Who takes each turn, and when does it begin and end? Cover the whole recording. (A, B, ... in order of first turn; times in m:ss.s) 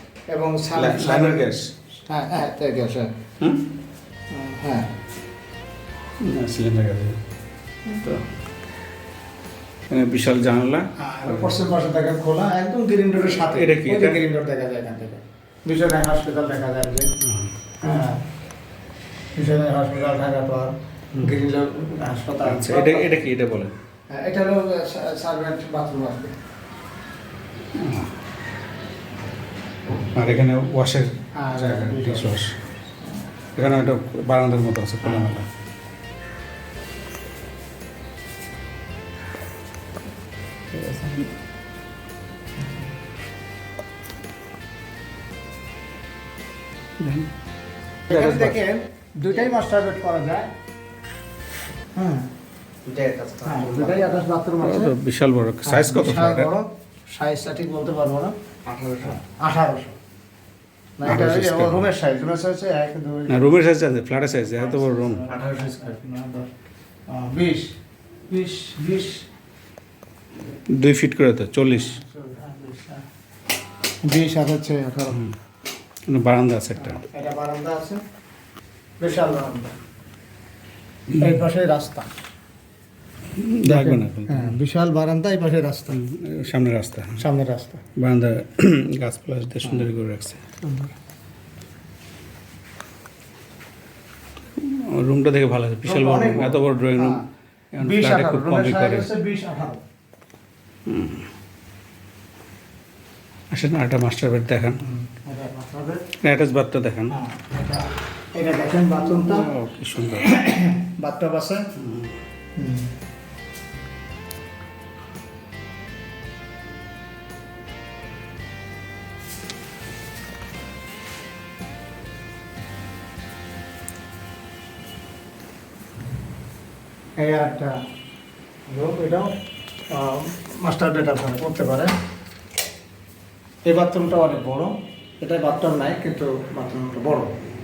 0:00.3-0:01.5 A
0:00.8-0:01.7 B
0:02.1-0:03.2 A
0:03.4-0:03.7 B
0:04.3-0:04.9 A
0:06.2-0:07.2 B
0:08.0-0:08.2 B
0:09.9-0:11.6 B
0:11.0-0:17.1 A
0:13.5-0:14.2 B
0:17.2-0:17.6 B
0:17.8-0:18.2 A
0:19.4-0:23.2 A
0:22.4-0:23.8 B
0:24.1-0:26.4 A
0:27.8-0:28.1 B
0:30.1-0:32.6 B
0:31.4-0:32.4 A
0:33.6-0:35.5 B
0:35.0-0:35.4 A
0:40.8-0:41.3 B
0:47.0-0:47.3 B
0:48.1-0:50.5 A
0:48.1-0:48.6 B
0:52.0-0:52.3 A
0:52.8-0:56.5 B
0:53.4-0:55.0 A
0:55.6-1:00.0 A
1:01.0-1:03.7 A
1:01.0-1:01.9 B
1:03.3-1:05.7 B
1:04.5-1:06.5 A
1:07.1-1:07.8 A
1:08.3-1:09.2 A
1:10.7-1:12.0 B
1:11.7-1:13.0 A
1:14.0-1:15.3 A
1:16.1-1:17.0 B
1:16.8-1:18.0 A
1:19.0-1:19.8 A
1:21.1-1:21.4 B
1:21.2-1:22.1 A
1:23.4-1:24.6 B
1:23.6-1:26.0 A
1:25.9-1:27.2 B
1:27.2-1:27.8 A
1:28.0-1:30.4 B
1:30.6-1:30.9 A
1:34.6-1:37.2 B
1:35.8-1:37.2 A
1:37.8-1:39.1 B
1:37.8-1:39.8 A
1:40.9-1:41.3 B
1:43.5-1:44.8 B
1:44.8-1:46.1 A
1:46.2-1:47.2 B
1:47.1-1:49.5 A
1:49.1-1:50.3 B
1:50.1-1:51.7 A
1:51.8-1:52.2 B
1:52.6-1:52.9 A
2:07.2-2:07.8 A
2:08.7-2:09.4 A
2:09.9-2:11.9 A
2:13.7-2:17.3 A